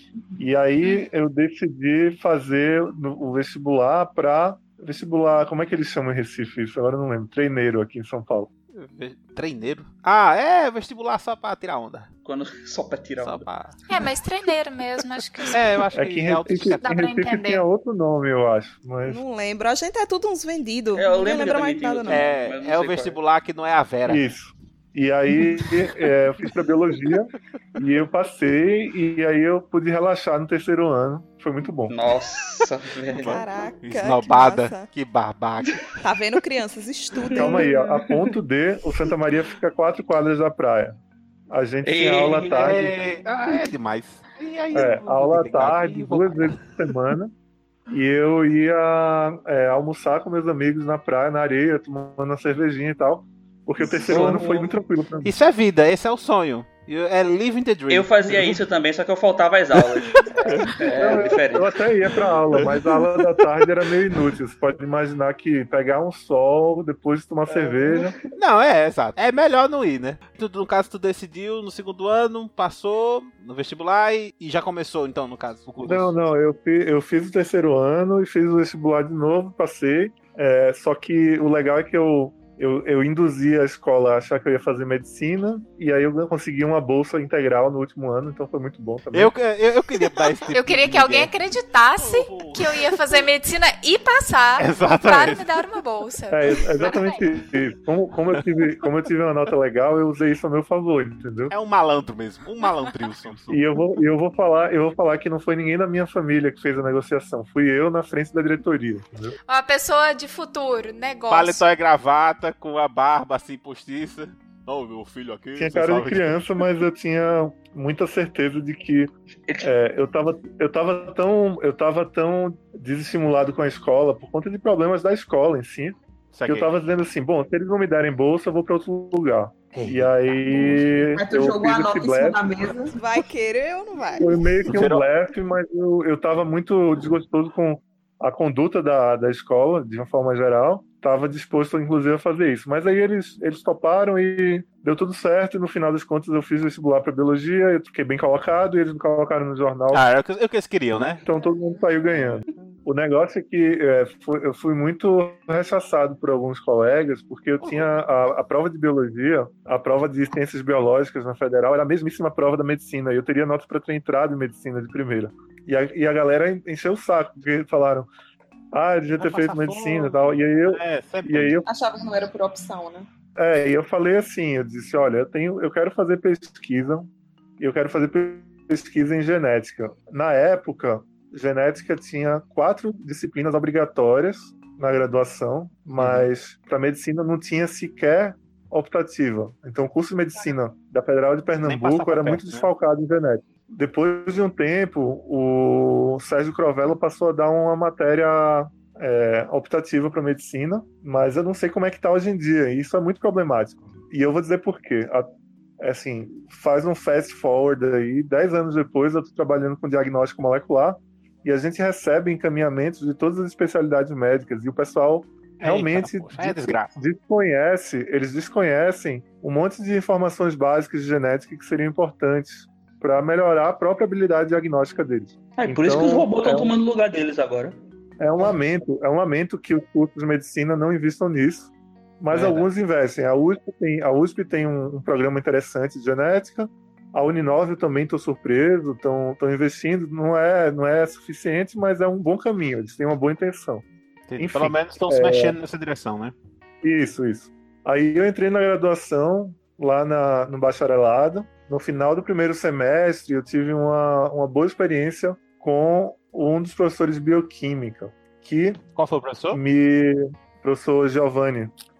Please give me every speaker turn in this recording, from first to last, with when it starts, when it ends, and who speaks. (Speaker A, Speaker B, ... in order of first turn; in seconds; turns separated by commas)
Speaker A: 0.4-8.5, Speaker B: 8.7-12.1, Speaker C: 12.2-13.5, Speaker B: 13.2-14.1, Speaker D: 13.9-15.9, Speaker B: 15.4-16.9, Speaker A: 15.9-19.2, Speaker D: 16.7-17.6, Speaker E: 19.0-22.2, Speaker C: 20.9-23.2, Speaker B: 22.1-24.2, Speaker A: 24.1-31.9, Speaker C: 31.9-33.4, Speaker B: 33.1-35.8, Speaker E: 33.2-34.9, Speaker E: 36.0-37.7, Speaker C: 37.2-37.6, Speaker A: 37.3-40.9, Speaker A: 41.5-43.0, Speaker C: 41.8-42.8, Speaker B: 42.5-46.8, Speaker A: 44.7-47.3, Speaker A: 47.9-55.3, Speaker C: 54.0-54.7, Speaker B: 55.2-58.6, Speaker C: 57.9-61.8, Speaker B: 59.7-61.1, Speaker A: 60.9-68.1, Speaker B: 62.1-64.3, Speaker B: 68.3-76.1, Speaker A: 75.8-89.3, Speaker B: 89.1-91.3, Speaker D: 90.5-97.0, Speaker B: 91.9-93.2, Speaker B: 94.6-95.7, Speaker A: 96.3-101.5, Speaker B: 101.5-103.6, Speaker A: 103.5-109.4, Speaker D: 109.5-111.6, Speaker B: 111.3-116.6, Speaker A: 115.5-119.1, Speaker C: 119.5-119.7, Speaker A: 119.6-132.4, Speaker B: 126.3-126.7, Speaker B: 129.7-130.8, Speaker F: 130.5-133.0, Speaker E: 132.9-134.4, Speaker A: 134.2-150.1, Speaker B: 134.6-135.1, Speaker B: 149.9-151.2, Speaker A: 150.9-168.1, Speaker B: 152.1-152.8, Speaker B: 157.6-157.9, Speaker A: 168.7-171.7, Speaker B: 169.2-171.6, Speaker F: 171.7-173.1, Speaker A: 173.3-205.3, Speaker B: 186.0-186.3, Speaker B: 191.6-192.7, Speaker A: 205.8-226.7, Speaker B: 215.6-217.0, Speaker C: 225.6-227.8, Speaker A: 228.2-243.8, Speaker B: 232.3-232.7, Speaker B: 244.3-246.3, Speaker A: 244.4-245.6, Speaker A: 246.8-258.8, Speaker B: 258.9-259.6, Speaker A: 259.5-261.7